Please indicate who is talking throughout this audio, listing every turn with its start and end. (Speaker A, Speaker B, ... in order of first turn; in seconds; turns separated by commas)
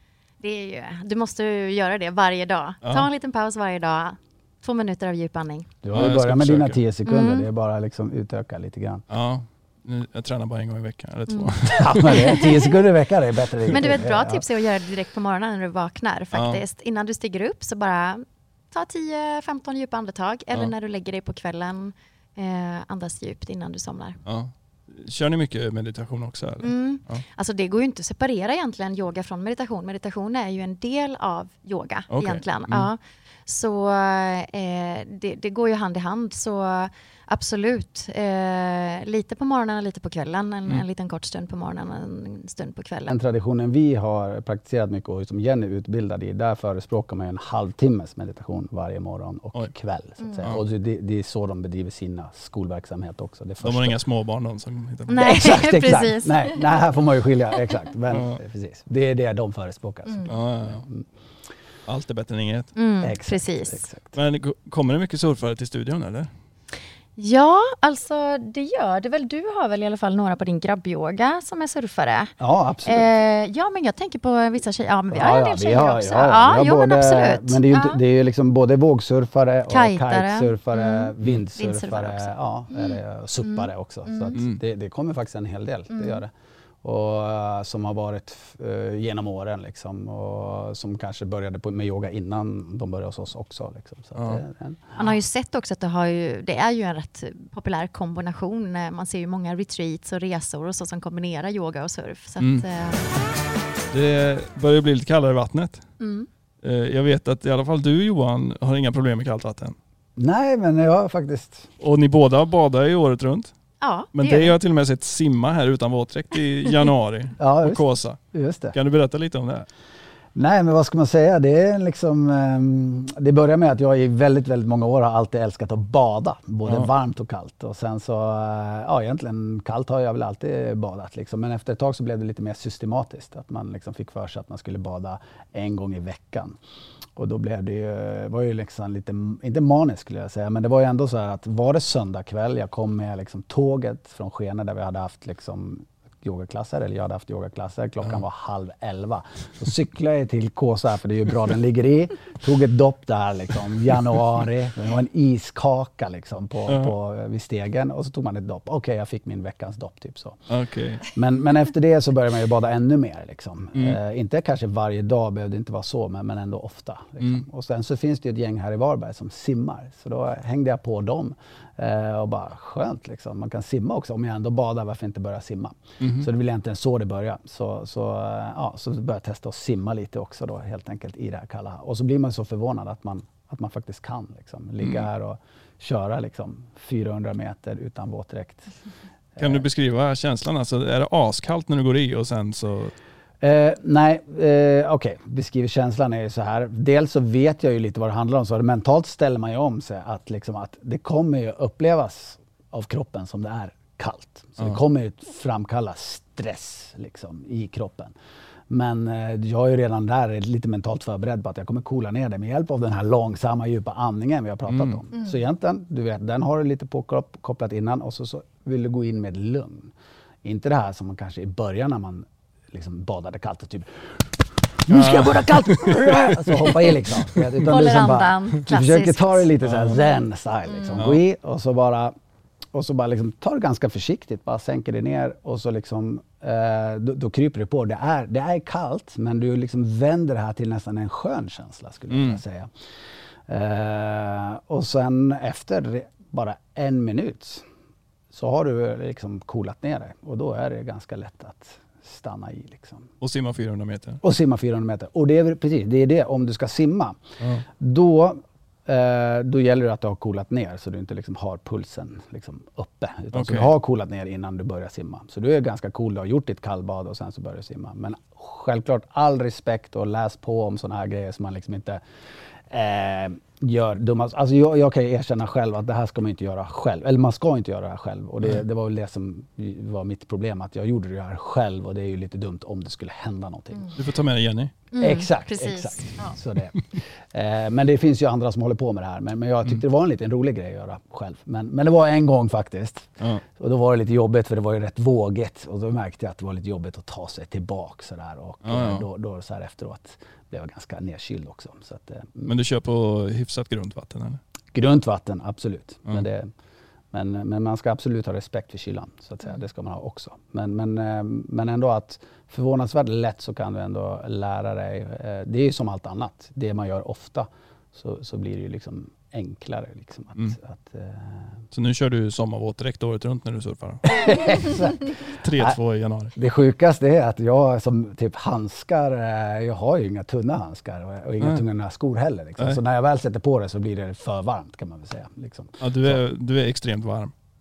Speaker A: 0.4-5.7, Speaker B: 5.8-9.0, Speaker C: 5.9-6.8, Speaker A: 7.0-7.5, Speaker C: 9.1-12.4, Speaker A: 11.3-12.7, Speaker B: 11.8-14.4, Speaker A: 13.7-24.2, Speaker C: 16.3-16.6, Speaker C: 24.2-27.2, Speaker A: 26.6-43.1, Speaker C: 32.1-32.9, Speaker B: 43.1-54.0, Speaker A: 50.2-50.5, Speaker C: 53.6-55.2, Speaker A: 55.1-56.6, Speaker B: 55.1-61.0, Speaker C: 58.1-58.4, Speaker A: 60.0-60.3, Speaker C: 60.2-60.8, Speaker C: 61.9-62.7, Speaker A: 62.8-63.9, Speaker B: 63.0-64.2, Speaker C: 64.1-66.3, Speaker A: 67.2-72.3, Speaker B: 72.4-73.1, Speaker A: 72.8-78.0, Speaker B: 75.1-86.3, Speaker A: 79.7-84.4, Speaker C: 84.3-84.6, Speaker A: 85.9-86.2, Speaker B: 86.8-95.1, Speaker C: 94.2-94.4, Speaker A: 95.0-103.1, Speaker C: 102.4-102.6, Speaker C: 103.9-105.8, Speaker A: 106.0-106.3, Speaker C: 106.6-109.8, Speaker B: 110.2-111.7, Speaker C: 111.8-113.5, Speaker A: 113.8-114.5, Speaker C: 114.1-118.2, Speaker B: 117.4-118.7, Speaker C: 118.7-119.7, Speaker B: 120.3-136.6, Speaker B: 137.2-160.4, Speaker C: 156.7-156.9, Speaker C: 160.5-161.0, Speaker B: 161.1-188.7, Speaker C: 176.0-176.3, Speaker B: 189.3-189.6, Speaker C: 189.4-192.9, Speaker B: 193.4-208.1, Speaker B: 208.7-219.9, Speaker C: 214.7-215.0, Speaker B: 220.4-232.1, Speaker C: 224.9-227.6, Speaker A: 227.7-229.5, Speaker C: 229.6-230.0, Speaker A: 230.7-231.0, Speaker B: 232.7-242.7, Speaker C: 242.1-242.4, Speaker B: 243.5-247.7, Speaker B: 248.3-253.1, Speaker C: 253.2-254.2, Speaker B: 254.2-257.2, Speaker C: 257.4-257.6, Speaker B: 257.7-272.0, Speaker C: 263.3-263.7, Speaker B: 272.7-284.0, Speaker C: 283.9-284.7, Speaker A: 284.9-286.3, Speaker B: 285.0-302.5, Speaker C: 298.6-299.0, Speaker C: 302.4-304.4, Speaker B: 304.7-306.5, Speaker B: 307.1-321.6, Speaker C: 321.7-326.3, Speaker B: 324.1-325.8, Speaker B: 326.3-336.2, Speaker C: 335.8-337.3